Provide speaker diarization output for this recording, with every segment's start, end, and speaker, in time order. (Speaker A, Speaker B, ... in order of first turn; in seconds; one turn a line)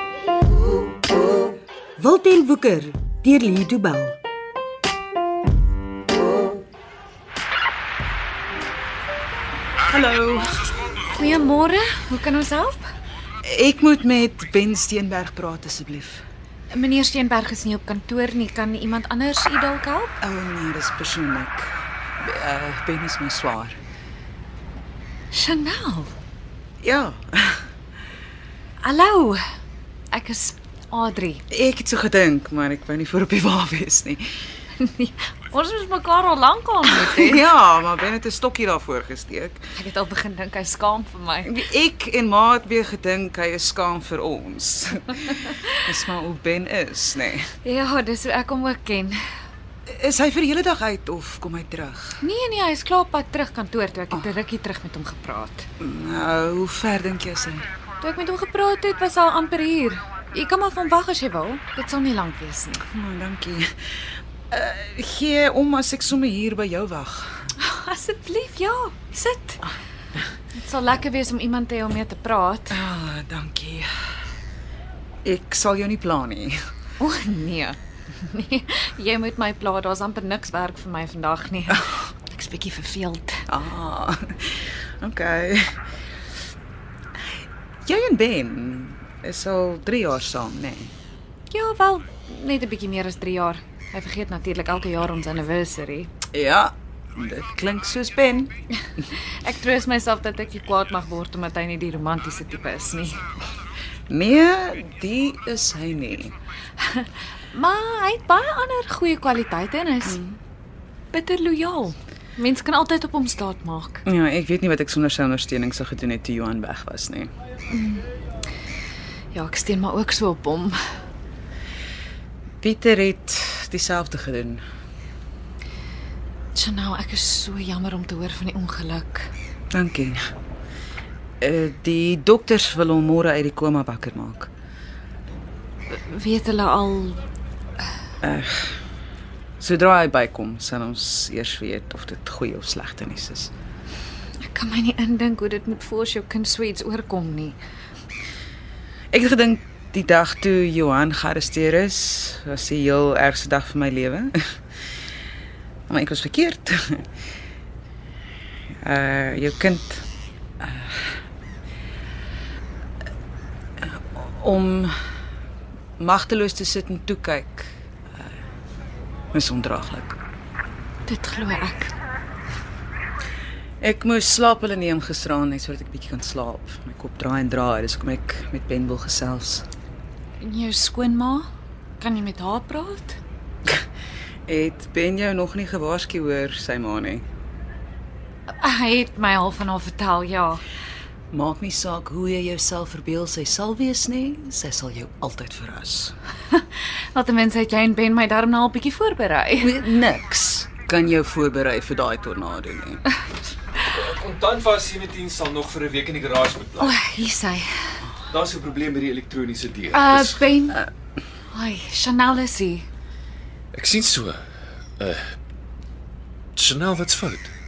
Speaker A: 2.0-4.2
Speaker B: 9.9-10.8
Speaker C: 11.1-12.8
Speaker B: 13.4-16.2
Speaker C: 16.7-20.1
Speaker B: 20.2-23.8
Speaker C: 25.3-26.1
Speaker B: 26.8-27.6
Speaker C: 28.8-29.4
Speaker C: 30.1-31.4
Speaker B: 31.5-34.2
Speaker C: 34.8-37.5
Speaker B: 36.9-39.7
Speaker C: 39.7-41.6
Speaker B: 41.4-45.3
Speaker B: 45.8-47.5
Speaker C: 47.6-49.2
Speaker B: 49.9-52.2
Speaker C: 52.2-55.6
Speaker B: 55.8-57.6
Speaker C: 58.0-62.8
Speaker B: 62.8-63.7
Speaker B: 64.5-67.4
Speaker C: 67.6-69.6
Speaker C: 70.5-72.8
Speaker B: 72.7-73.9
Speaker B: 75.2-76.6
Speaker C: 77.0-83.4
Speaker B: 83.5-85.7
Speaker B: 87.8-90.9
Speaker C: 91.5-96.1
Speaker B: 96.3-98.5
Speaker C: 99.4-103.2
Speaker B: 104.1-106.3
Speaker C: 106.8-110.2
Speaker B: 110.0-110.4
Speaker C: 111.1-114.0
Speaker B: 114.0-117.3
Speaker C: 117.7-118.0
Speaker C: 119.3-120.8
Speaker B: 122.6-124.6
Speaker C: 126.5-129.3
Speaker B: 129.7-130.2
Speaker B: 131.4-134.5
Speaker C: 135.9-137.2
Speaker B: 138.2-138.8
Speaker B: 139.6-143.5
Speaker C: 144.4-147.6
Speaker B: 149.1-154.4
Speaker B: 155.9-157.0
Speaker B: 158.8-160.0
Speaker B: 160.6-161.0
Speaker B: 163.8-164.9
Speaker B: 166.0-168.3
Speaker B: 169.3-170.2
Speaker C: 171.0-171.9
Speaker B: 173.8-179.6
Speaker C: 180.4-181.5
Speaker C: 182.0-183.2
Speaker B: 184.5-187.2
Speaker C: 188.6-190.6
Speaker B: 191.3-196.1
Speaker C: 197.1-199.8
Speaker B: 199.6-203.0
Speaker D: 203.8-207.0
Speaker C: 206.8-207.7
Speaker D: 208.3-210.4
Speaker C: 209.9-210.9
Speaker C: 211.5-212.8
Speaker D: 213.7-214.4
Speaker D: 215.0-215.3
Speaker D: 216.5-217.5